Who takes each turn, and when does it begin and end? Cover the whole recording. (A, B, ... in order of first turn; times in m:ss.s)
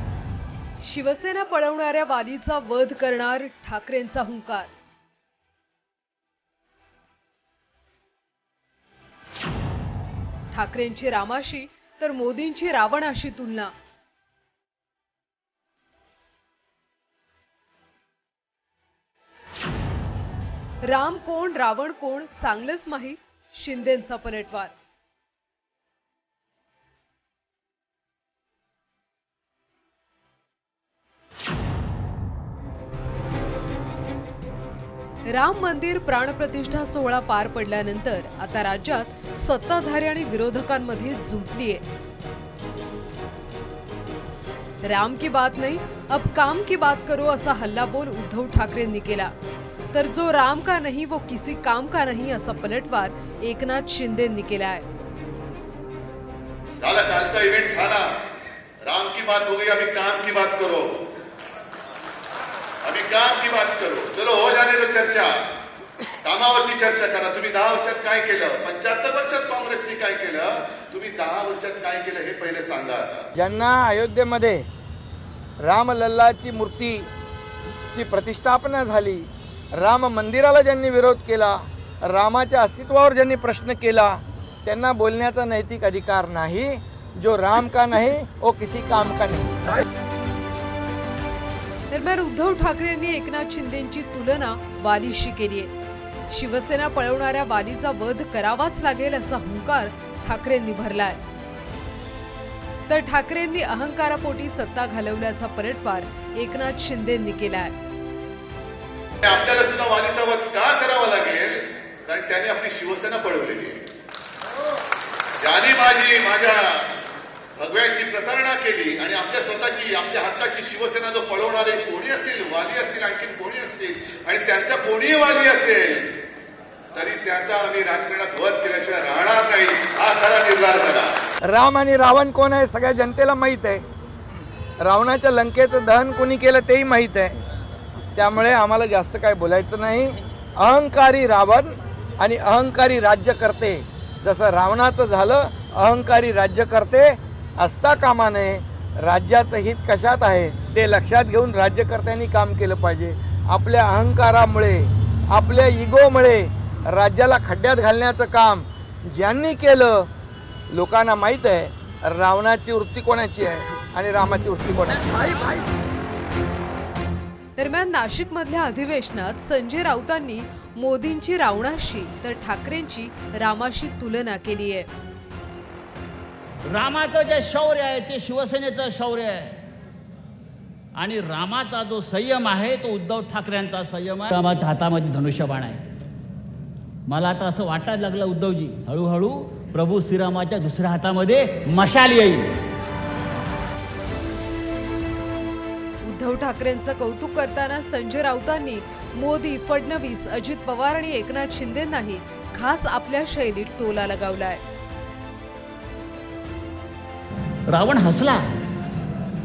0:00.8-0:04.7 A
0:10.5-0:13.7 A
0:20.8-0:24.7 A
0:35.3-0:41.8 A
0:44.8-0:49.3 A
0:49.9-0:54.9 A
0:56.8-0:58.1 B
0:58.8-1:01.0 B
1:02.8-1:05.4 B
1:06.2-1:13.3 B
1:13.4-1:14.7 C
1:15.6-1:17.1 C
1:17.9-1:29.6 C
1:31.9-1:35.7 A
1:36.3-1:41.2 A
1:42.9-1:47.8 A
1:49.2-1:53.8 B
1:55.4-1:57.0 B
1:57.6-2:06.1 B
2:06.9-2:11.2 B
2:11.5-2:13.8 C
2:14.8-2:17.4 C
2:18.2-2:40.1 C
2:40.7-2:45.5 C
2:47.6-2:54.9 A
2:56.6-2:59.6 D
3:01.0-3:05.8 D
3:07.1-3:12.6 D
3:16.0-3:24.6 A
3:27.7-3:28.6 D